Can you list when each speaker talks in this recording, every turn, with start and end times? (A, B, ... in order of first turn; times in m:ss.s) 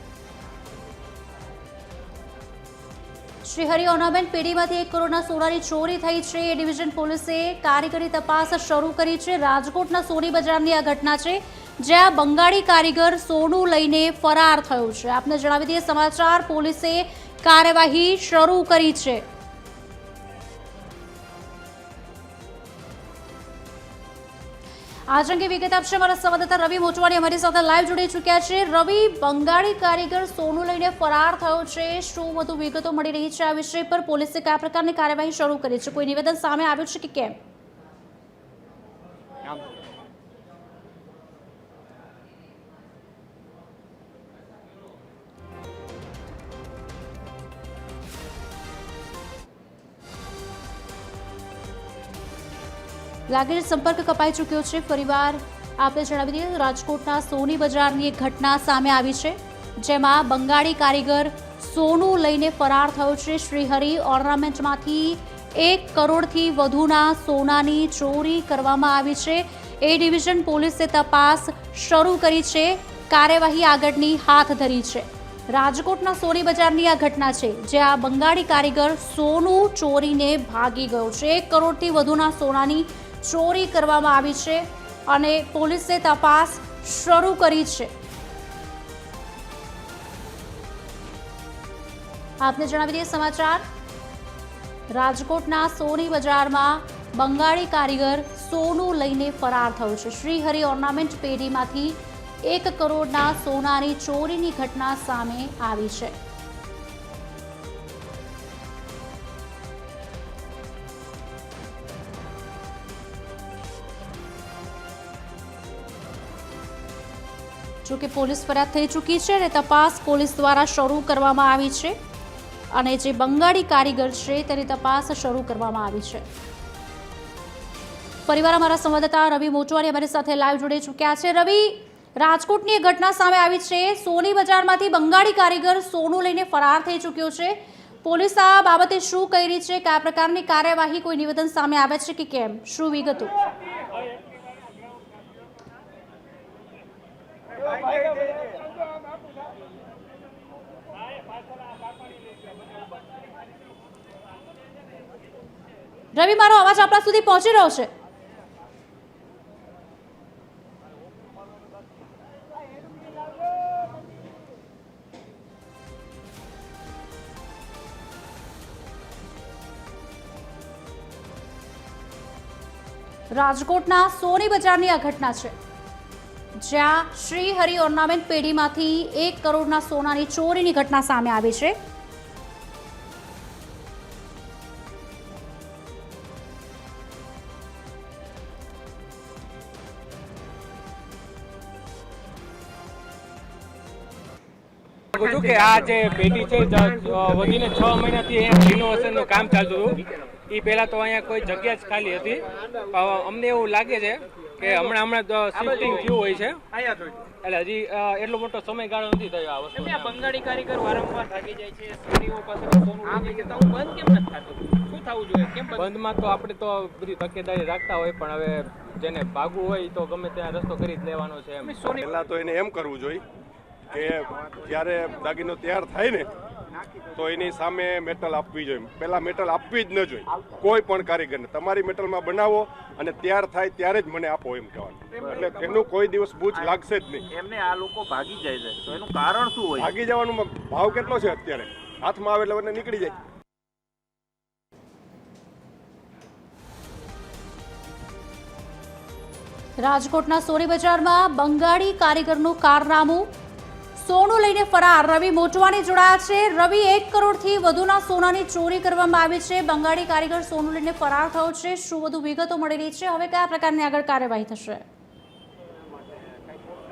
0:03.4-0:19.3 A
0:25.1-0:37.4 A
0:53.3-1:27.9 A
1:32.4-1:33.6 A
1:34.9-1:46.2 A
1:57.8-2:02.0 A
2:02.7-2:06.3 A
2:08.3-2:23.4 A
2:36.1-2:37.9 A
2:53.3-2:55.6 A
2:56.6-3:01.8 A
3:15.2-3:26.6 B
3:25.6-3:26.1 C
3:27.4-3:30.3 B
3:29.8-3:35.8 C
3:35.7-3:41.8 B
3:41.7-3:42.0 C
3:41.9-3:43.2 D
3:43.9-3:46.3 D
3:47.1-3:57.2 D
3:56.5-4:00.0 E
3:59.8-4:03.2 D
4:09.8-4:13.3 A
4:14.0-4:24.8 A